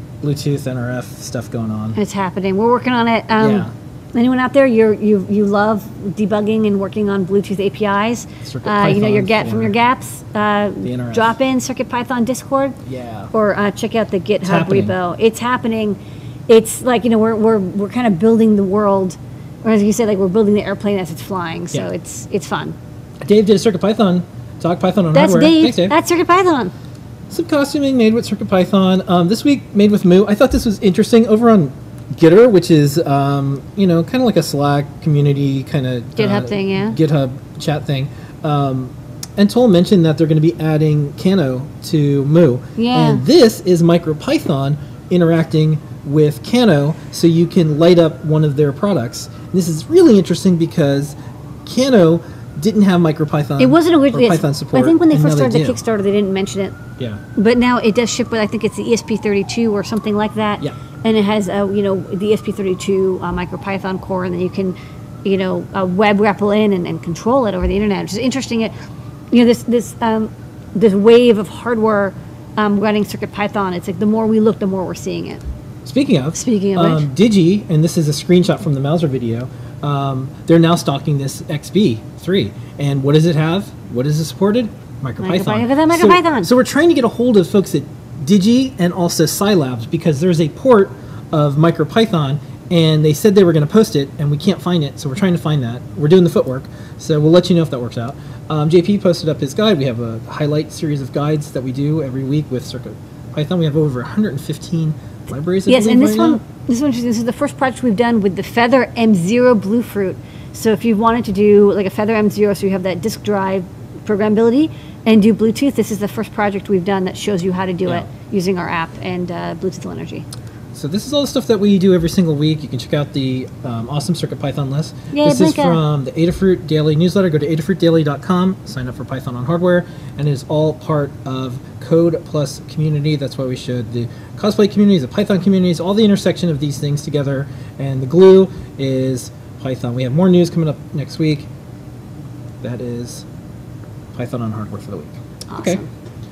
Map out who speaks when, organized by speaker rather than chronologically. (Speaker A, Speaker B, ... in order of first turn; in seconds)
Speaker A: 0.2-2.0, 3.4-3.7, 8.4-9.8, 10.8-11.4, 12.8-13.3, 14.4-15.0, 23.2-26.0, 27.3-55.8, 57.0-57.2, 75.8-106.4, 120.7-141.5, 142.6-143.3, 144.1-145.8
Speaker B: 2.0-12.8, 13.3-22.8, 25.1-26.7, 36.2-37.0, 42.8-43.2, 53.6-68.7, 69.3-75.4, 76.3-77.1, 85.2-86.5, 105.7-120.3, 125.1-125.8, 145.5-145.9